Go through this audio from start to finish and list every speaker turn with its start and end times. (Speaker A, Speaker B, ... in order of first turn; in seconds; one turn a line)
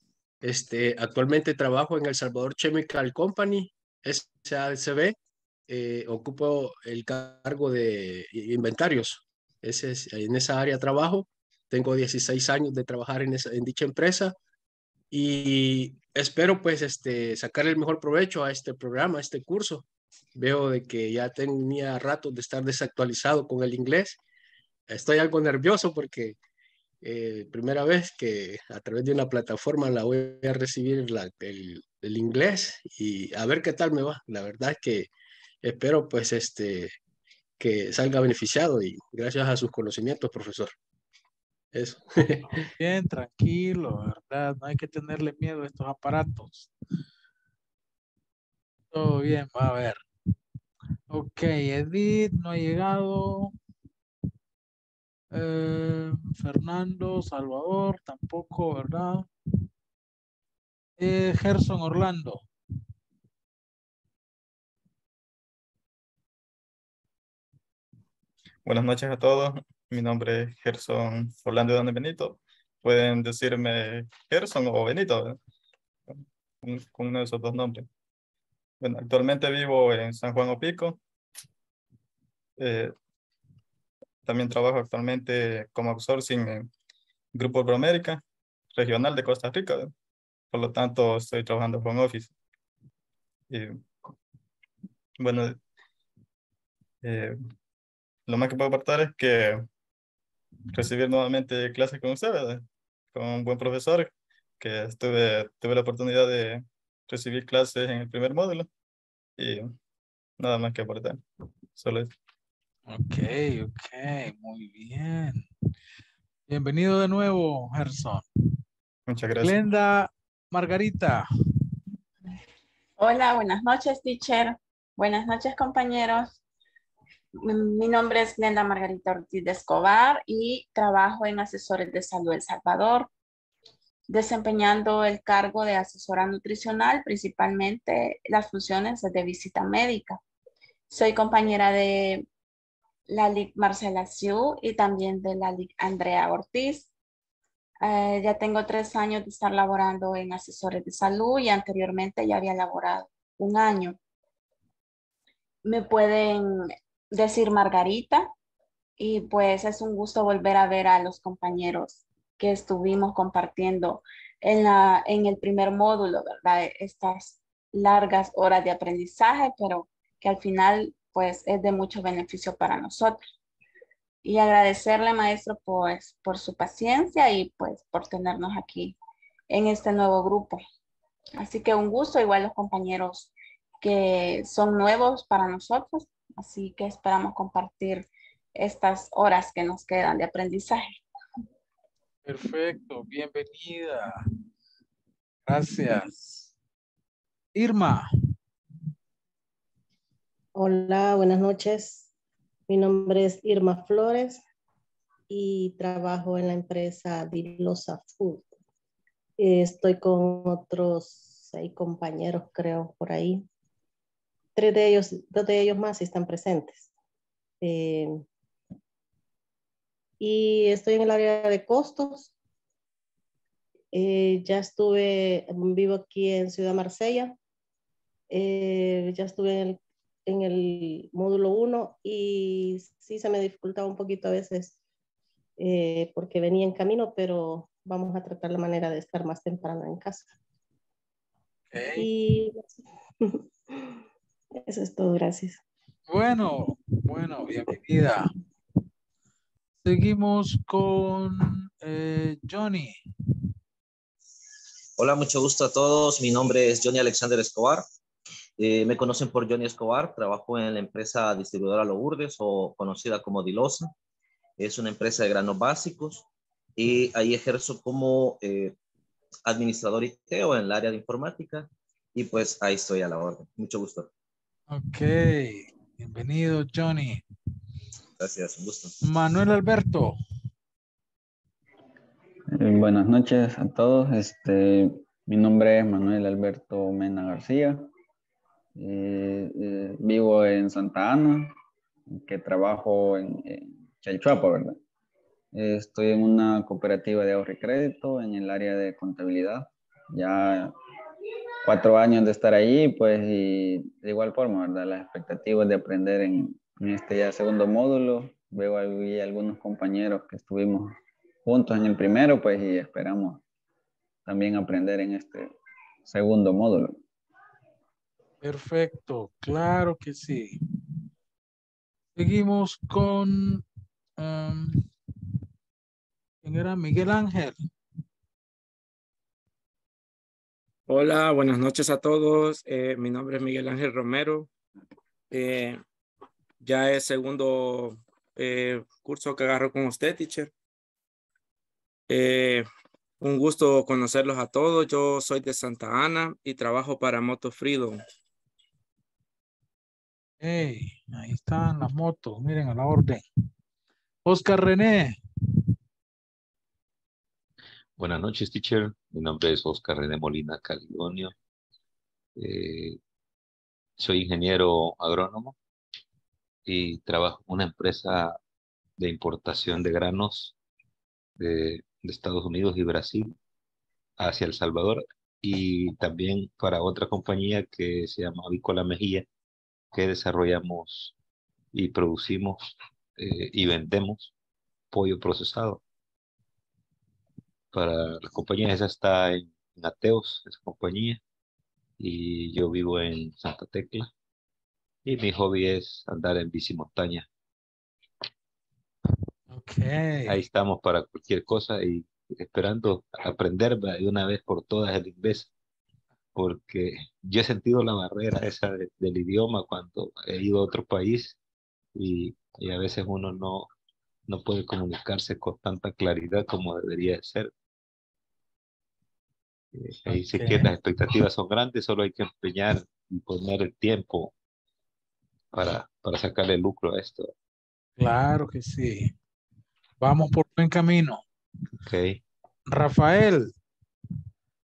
Speaker A: 0.4-5.2
Speaker A: 5.7-14.3
Speaker A: 15.1-24.2
Speaker A: 24.9-26.4
Speaker A: 27.0-35.1
Speaker A: 35.6-36.9
Speaker A: 37.6-40.7
Speaker A: 41.7-42.5
Speaker B: 42.5-46.7
Speaker B: 48.9-50.0
Speaker B: 51.1-53.5
Speaker B: 55.3-59.3
Speaker B: 61.0-62.5
Speaker C: 68.7-75.4
Speaker C: 76.1-77.9
Speaker C: 78.8-81.0
Speaker C: 82.6-82.9
Speaker C: 84.3-86.7
Speaker C: 87.3-88.2
Speaker C: 88.8-89.9
Speaker C: 90.5-92.3
Speaker C: 93.5-93.8
Speaker C: 95.2-95.6
Speaker C: 97.0-97.4
Speaker C: 98.3-99.7
Speaker C: 100.7-108.7
Speaker C: 109.4-109.8
Speaker C: 110.4-111.2
Speaker C: 111.8-112.1
Speaker B: 112.9-115.5
Speaker B: 116.5-118.2
Speaker C: 119.1-119.6
Speaker B: 119.4-121.2
Speaker D: 123.0-126.4
Speaker D: 127.4-133.1
Speaker D: 134.1-140.2
Speaker D: 140.9-142.3
Speaker D: 143.1-146.9
Speaker D: 147.8-154.0
Speaker D: 155.7-158.3
Speaker D: 159.0-173.2
Speaker D: 174.2-178.9
Speaker D: 179.5-180.6
Speaker D: 181.4-191.0
Speaker B: 192.2-194.1
Speaker B: 195.5-196.5
Speaker B: 197.6-198.1
Speaker E: 200.6-202.1
Speaker E: 202.7-204.4
Speaker E: 205.3-208.5
Speaker E: 209.4-213.4
Speaker E: 214.6-216.9
Speaker E: 217.6-218.2
Speaker E: 220.2-222.3
Speaker E: 223.9-227.3
Speaker E: 228.3-234.8
Speaker E: 235.6-240.3
Speaker B: 241.7-242.1
Speaker E: 242.0-243.8
Speaker E: 244.7-245.6
Speaker B: 246.1-248.3
Speaker B: 249.8-253.0
Speaker F: 255.0-257.9
Speaker F: 258.6-263.9
Speaker F: 264.6-266.3
Speaker F: 266.8-268.8
Speaker F: 269.5-274.1
Speaker B: 274.7-277.2
Speaker F: 278.2-278.9
Speaker B: 279.0-280.1
Speaker G: 282.5-287.9
Speaker G: 288.8-291.5
Speaker G: 292.1-294.8
Speaker G: 295.5-300.7
Speaker G: 301.6-310.9
Speaker G: 311.5-313.4
Speaker G: 314.3-315.5
Speaker G: 316.1-317.0
Speaker B: 318.4-320.6
Speaker B: 322.2-323.6
Speaker B: 324.2-324.9
Speaker B: 326.4-327.6
Speaker H: 330.9-334.5
Speaker H: 335.3-335.8
Speaker H: 336.6-340.5
Speaker H: 342.1-342.7
Speaker H: 343.2-348.0
Speaker B: 350.4-353.2
Speaker B: 354.3-355.2
Speaker I: 358.0-361.3
Speaker I: 362.4-363.0
Speaker I: 364.0-365.6
Speaker I: 366.7-368.4
Speaker I: 369.0-370.5
Speaker I: 371.4-373.4
Speaker I: 374.2-379.3
Speaker I: 379.9-381.1
Speaker I: 381.7-384.3
Speaker I: 384.9-385.8
Speaker I: 387.7-391.2
Speaker I: 392.0-394.1
Speaker I: 395.1-397.3
Speaker B: 399.5-400.4
Speaker I: 400.3-405.5
Speaker I: 406.4-411.4
Speaker I: 412.0-413.7
Speaker I: 414.3-417.5
Speaker I: 419.7-424.3
Speaker B: 420.1-420.7
Speaker I: 425.5-427.3
Speaker B: 428.0-429.1
Speaker B: 430.0-431.2
Speaker I: 431.9-432.2
Speaker B: 432.7-433.5